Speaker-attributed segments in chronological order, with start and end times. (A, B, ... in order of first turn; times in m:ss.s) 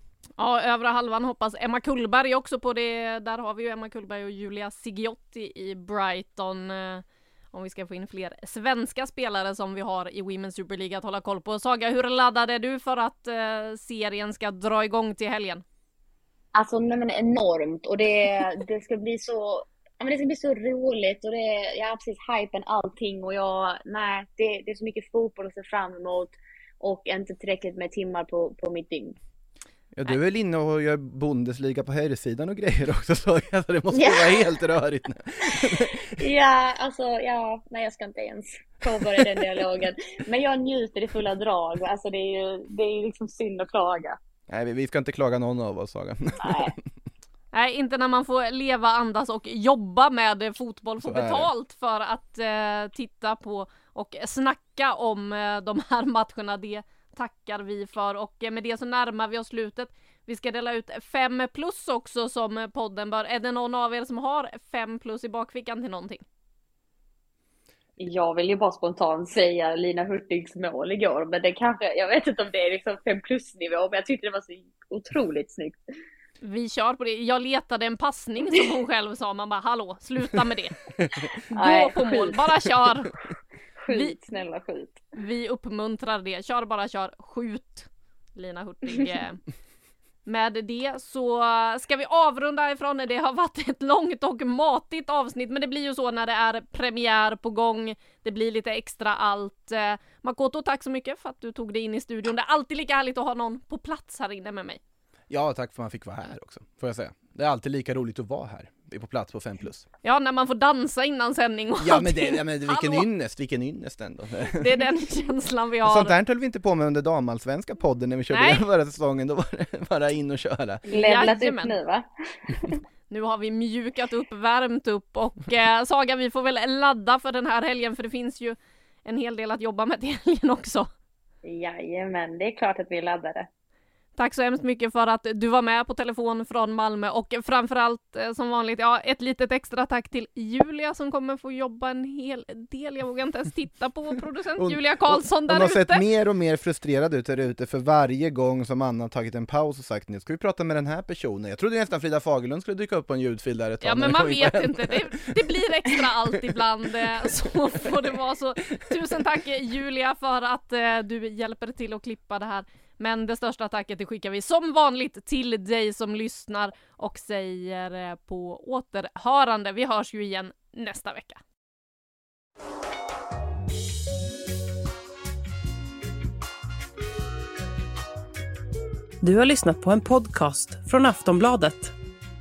0:00.4-0:15.6 A
0:16.5-0:29.2 B
0:30.0-0:36.1 C
0:33.9-0:34.4 B
0:35.5-0:44.2 B
0:39.1-0:39.4 C
0:44.5-0:46.9 C
0:46.4-0:46.7 B
0:47.5-1:06.2 A
0:51.0-0:51.5 C
1:08.0-1:15.8 B
1:16.4-1:20.7 A
1:21.4-1:23.2 B
1:21.5-1:23.1 A
1:23.8-1:25.0 B
1:23.9-1:24.1 A
1:25.1-1:29.4 A
1:30.2-1:44.8 A
1:45.3-1:49.9 C
1:50.0-1:53.0 A
1:51.8-1:54.8 C
1:54.6-1:56.1 A
1:55.8-2:00.8 C
1:58.3-1:58.6 A
2:00.8-2:02.8 B
2:00.9-2:01.7 A
2:03.1-2:10.9 A
2:11.4-2:13.5 B
2:14.2-2:26.0 A
2:24.6-2:36.3 C
2:33.8-2:51.4 A
2:37.0-2:37.5 C
2:38.6-2:39.2 C
2:59.2-3:01.9 D